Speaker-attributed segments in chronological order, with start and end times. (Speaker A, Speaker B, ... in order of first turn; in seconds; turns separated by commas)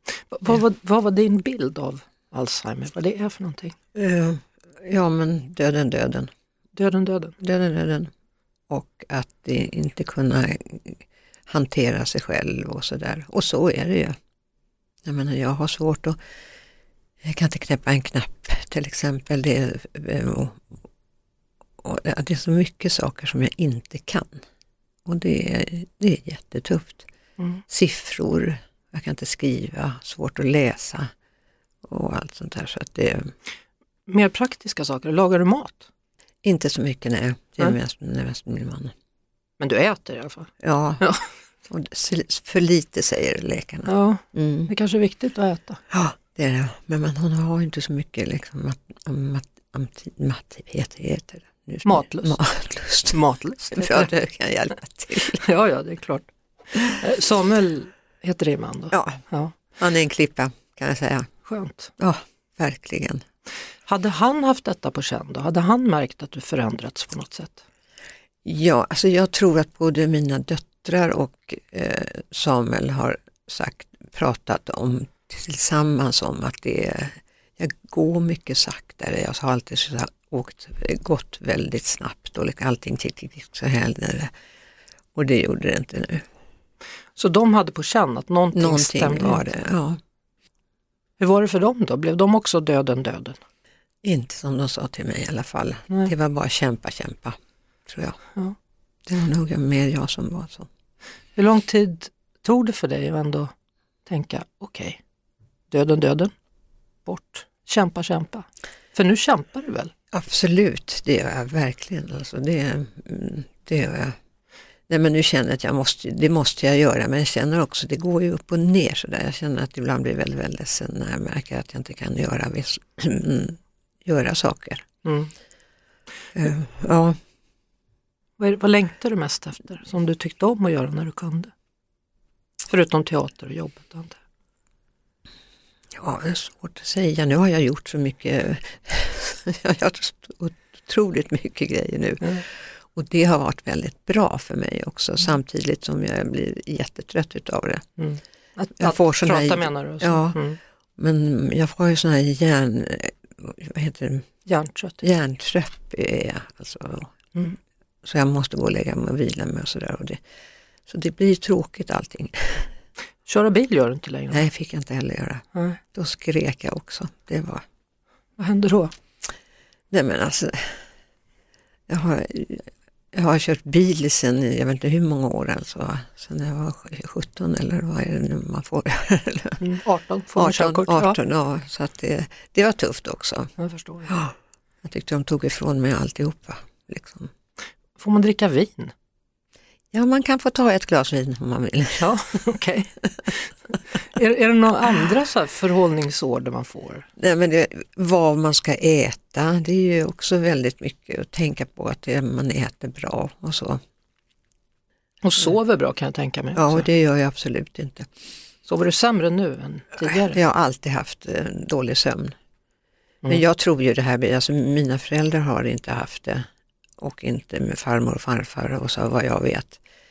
Speaker A: 0.3-3.8, Speaker B: 3.9-6.3, Speaker A: 6.7-7.4, Speaker B: 7.4-8.1, Speaker B: 8.7-14.2, Speaker B: 15.0-16.2, Speaker B: 17.2-20.6, Speaker B: 21.8-24.4, Speaker B: 25.0-27.1, Speaker B: 27.7-31.1, Speaker B: 31.8-33.3, Speaker A: 34.1-35.9, Speaker B: 36.4-38.9, Speaker A: 39.6-41.2, Speaker B: 40.6-41.0, Speaker B: 41.7-44.7, Speaker A: 43.9-45.8, Speaker B: 45.9-53.2, Speaker A: 51.8-52.4, Speaker A: 53.1-54.1, Speaker B: 53.7-55.4, Speaker A: 55.4-59.5, Speaker B: 58.9-59.2, Speaker B: 59.8-61.3, Speaker A: 61.4-61.9, Speaker B: 62.0-63.2, Speaker A: 63.9-67.6, Speaker B: 68.4-84.3, Speaker B: 85.1-86.2, Speaker A: 87.2-89.4, Speaker B: 88.5-90.0, Speaker A: 91.2-93.4, Speaker B: 94.0-98.2, Speaker B: 99.0-100.7, Speaker A: 101.3-103.5, Speaker A: 104.0-105.0, Speaker A: 105.7-106.3, Speaker A: 107.0-109.9, Speaker B: 110.1-114.2, Speaker B: 114.9-124.8, Speaker A: 125.0-125.3, Speaker B: 126.3-127.2, Speaker A: 128.4-131.5, Speaker A: 132.7-134.2, Speaker B: 135.9-147.8, Speaker A: 148.0-150.6, Speaker B: 148.8-150.4, Speaker B: 151.0-154.2, Speaker A: 154.5-155.0, Speaker B: 155.0-157.1, Speaker B: 158.0-160.2, Speaker B: 160.9-162.7, Speaker A: 163.2-164.4, Speaker B: 164.3-167.6, Speaker A: 168.4-168.9, Speaker B: 169.9-170.8, Speaker B: 171.9-179.6, Speaker A: 179.6-181.2, Speaker B: 180.3-183.5, Speaker A: 183.6-184.2, Speaker B: 184.1-184.3, Speaker B: 184.8-187.3, Speaker A: 188.0-188.9, Speaker B: 189.9-192.2, Speaker A: 192.0-197.1, Speaker B: 197.2-203.8, Speaker A: 205.2-206.9, Speaker B: 206.5-208.1, Speaker A: 208.6-210.4, Speaker B: 210.2-212.3, Speaker B: 213.3-216.5, Speaker B: 217.0-219.8